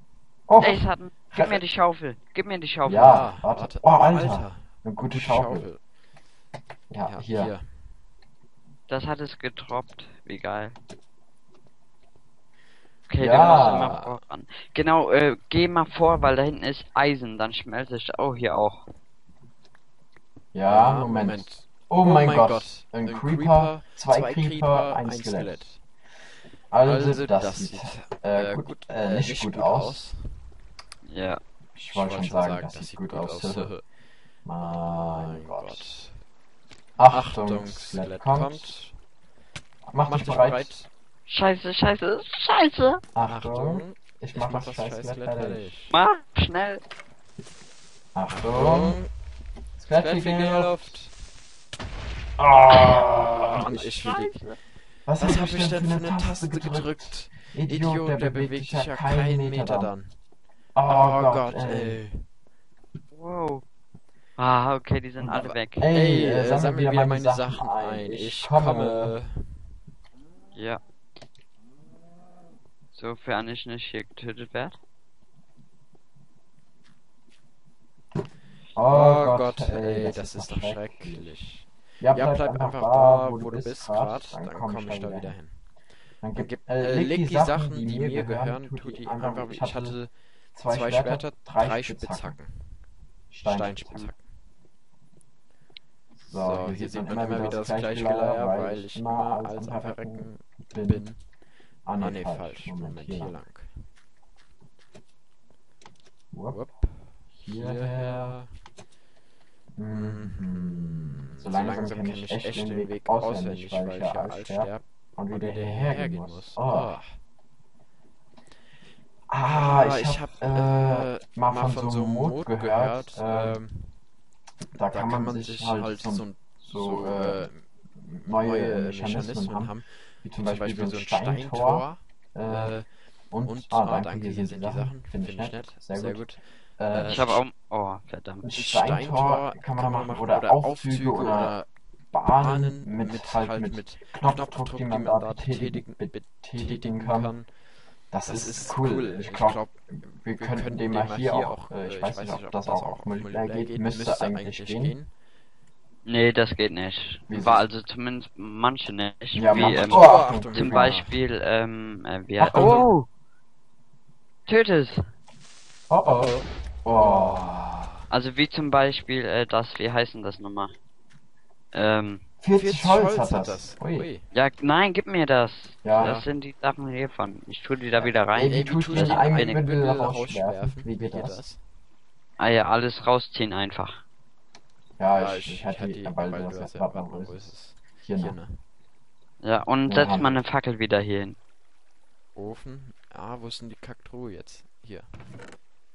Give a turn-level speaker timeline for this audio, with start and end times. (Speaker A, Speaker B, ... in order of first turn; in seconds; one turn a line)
Speaker A: 0.5-1.6
Speaker B: 0.6-3.3
Speaker A: 2.8-5.7
Speaker C: 3.0-5.8
Speaker A: 6.9-7.5
Speaker C: 7.0-7.9
Speaker B: 8.9-10.8
Speaker B: 13.1-18.9
Speaker A: 13.2-14.1
Speaker C: 13.3-14.0
Speaker A: 20.5-25.7
Speaker C: 20.6-25.8
Speaker A: 26.7-30.0
Speaker C: 26.8-30.5
Speaker B: 31.0-31.4
Speaker A: 31.7-33.7
Speaker C: 31.9-33.9
Speaker A: 34.4-36.0
Speaker C: 34.6-36.2
Speaker A: 37.0-38.7
Speaker C: 37.1-39.0
Speaker A: 39.9-40.7
Speaker C: 40.0-40.9
Speaker B: 41.3-43.0
Speaker A: 43.1-45.7
Speaker C: 43.2-46.0
Speaker B: 45.9-46.8
Speaker A: 48.1-49.0
Speaker C: 48.3-49.1
Speaker A: 49.8-51.0
Speaker C: 50.0-51.1
Speaker A: 52.4-53.9
Speaker C: 53.1-54.4
Speaker B: 53.6-54.6
Speaker A: 55.0-59.9
Speaker C: 55.2-60.1
Speaker A: 60.7-62.0
Speaker C: 60.9-62.3
Speaker B: 63.1-63.6
Speaker B: 64.4-65.9
Speaker C: 65.2-69.8
Speaker A: 65.8-69.2
Speaker B: 70.5-70.8
Speaker B: 72.9-74.8
Speaker A: 78.7-81.3
Speaker C: 78.9-85.7
Speaker A: 82.0-85.4
Speaker A: 86.2-92.4
Speaker C: 86.3-92.9
Speaker A: 93.3-94.1
Speaker C: 93.4-94.2
Speaker A: 96.2-101.1
Speaker C: 96.3-101.3
Speaker A: 101.8-103.4
Speaker C: 102.0-103.8
Speaker A: 106.3-106.6
Speaker C: 106.5-108.6
Speaker A: 107.4-108.4
Speaker A: 109.8-117.0
Speaker C: 109.9-117.2
Speaker A: 119.3-123.6
Speaker C: 119.5-124.0
Speaker A: 124.7-137.4
Speaker C: 124.9-127.7
Speaker C: 128.3-137.4
Speaker B: 137.1-138.5
Speaker A: 138.4-147.3
Speaker C: 138.5-141.7
Speaker C: 142.3-147.6
Speaker A: 148.1-155.0
Speaker C: 148.2-155.1
Speaker B: 156.0-163.1
Speaker A: 157.3-157.7
Speaker A: 159.3-161.1
Speaker C: 159.5-161.2
Speaker A: 162.4-162.9
Speaker C: 162.5-162.9
Speaker B: 164.5-165.0
Speaker A: 165.9-167.9
Speaker C: 166.1-167.4
Speaker B: 168.1-170.7
Speaker B: 171.7-172.2
Speaker A: 172.4-174.1
Speaker C: 172.6-174.3
Speaker B: 174.3-179.6
Speaker A: 175.8-176.2
Speaker C: 176.0-176.3
Speaker C: 178.0-181.6
Speaker A: 178.3-181.4
Speaker B: 182.4-184.0
Speaker A: 185.0-188.4
Speaker C: 185.1-188.6
Speaker B: 189.4-191.4
Speaker A: 189.8-190.4
Speaker C: 192.3-195.1